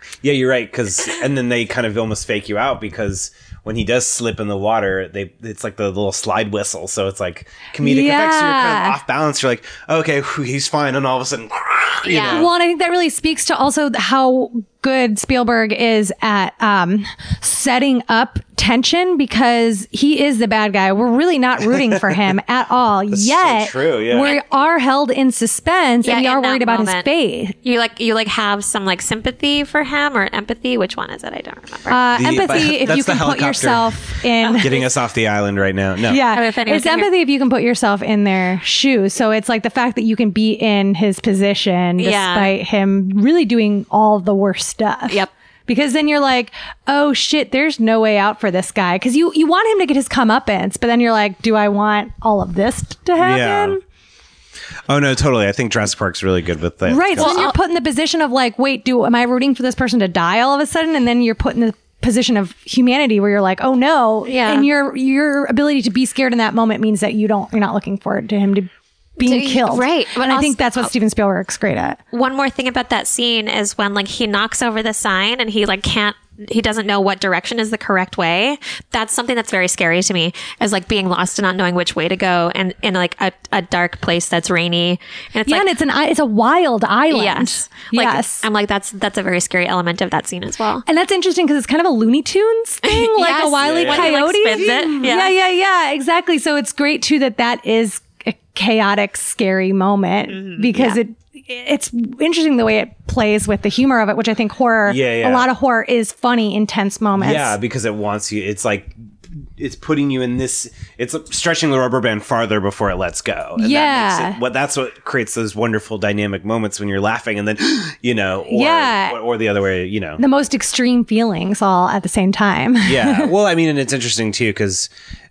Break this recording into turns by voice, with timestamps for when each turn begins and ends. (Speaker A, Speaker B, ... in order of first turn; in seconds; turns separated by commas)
Speaker A: 0.2-12.5, Speaker B: 7.8-9.0, Speaker C: 12.1-12.5, Speaker B: 12.3-27.5, Speaker A: 21.7-22.2, Speaker A: 23.1-24.4, Speaker C: 26.0-27.1, Speaker C: 27.6-32.0, Speaker B: 31.9-34.7, Speaker A: 32.1-34.0, Speaker C: 34.4-34.9, Speaker A: 34.6-36.2, Speaker B: 36.1-53.8, Speaker C: 36.3-37.1, Speaker C: 42.0-42.5, Speaker A: 53.2-53.8, Speaker A: 54.9-57.5, Speaker B: 56.9-72.0, Speaker C: 57.2-57.5, Speaker C: 64.3-64.7, Speaker C: 69.2-70.9, Speaker C: 72.1-85.7, Speaker B: 85.5-88.4, Speaker C: 87.1-90.8, Speaker B: 90.9-107.5, Speaker C: 92.8-95.3, Speaker A: 93.6-95.0, Speaker C: 100.3-101.0, Speaker A: 104.9-105.5, Speaker A: 107.2-109.0, Speaker A: 109.6-120.2, Speaker B: 113.6-114.4, Speaker B: 118.5-119.2, Speaker B: 120.2-123.3, Speaker A: 122.8-124.9